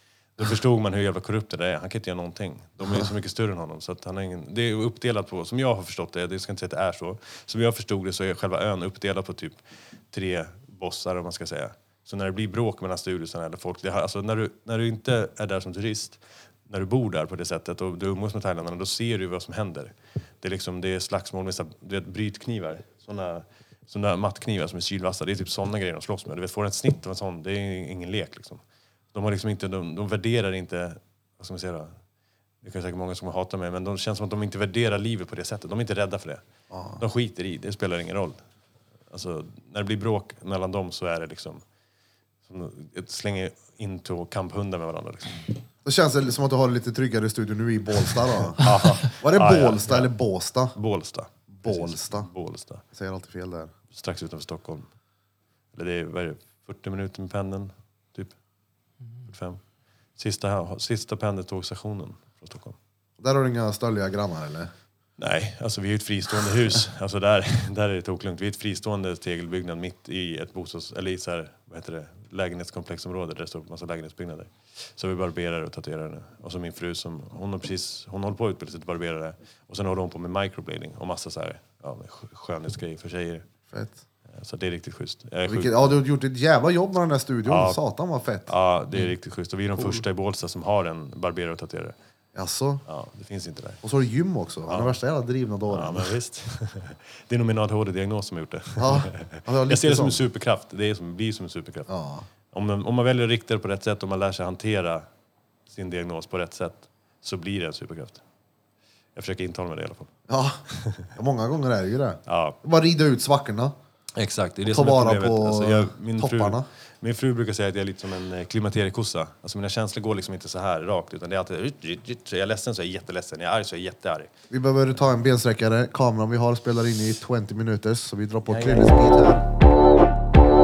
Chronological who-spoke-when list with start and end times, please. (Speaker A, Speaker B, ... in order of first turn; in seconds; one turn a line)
Speaker A: 0.4-28.6
Speaker A: 29.1-31.9
Speaker A: 32.6-36.4
Speaker B: 36.7-37.0
Speaker A: 37.0-38.4
Speaker A: 39.1-41.6
Speaker A: 42.5-45.5
Speaker B: 45.9-50.8
Speaker A: 48.5-50.1
Speaker A: 50.8-52.8
Speaker B: 51.5-52.3
Speaker B: 52.9-53.7
Speaker A: 53.9-54.9
Speaker A: 55.8-58.3
Speaker A: 59.3-59.6
Speaker A: 60.2-62.8
Speaker B: 63.2-64.7
Speaker A: 65.2-83.4
Speaker B: 83.7-84.0
Speaker A: 84.4-86.0
Speaker B: 85.5-88.5
Speaker A: 87.5-87.8
Speaker A: 88.5-92.0
Speaker B: 89.8-90.0
Speaker B: 92.3-92.8
Speaker A: 92.9-93.8
Speaker B: 93.8-96.1
Speaker A: 94.7-94.9
Speaker A: 95.7-101.9
Speaker B: 98.8-100.2
Speaker B: 101.9-102.3
Speaker A: 102.5-105.1
Speaker A: 105.7-108.2
Speaker A: 109.2-110.1
Speaker B: 110.3-110.6
Speaker A: 110.7-111.1
Speaker B: 111.2-113.8
Speaker A: 112.3-112.6
Speaker A: 114.2-124.3
Speaker B: 114.7-116.7
Speaker B: 124.5-129.4
Speaker A: 128.5-129.3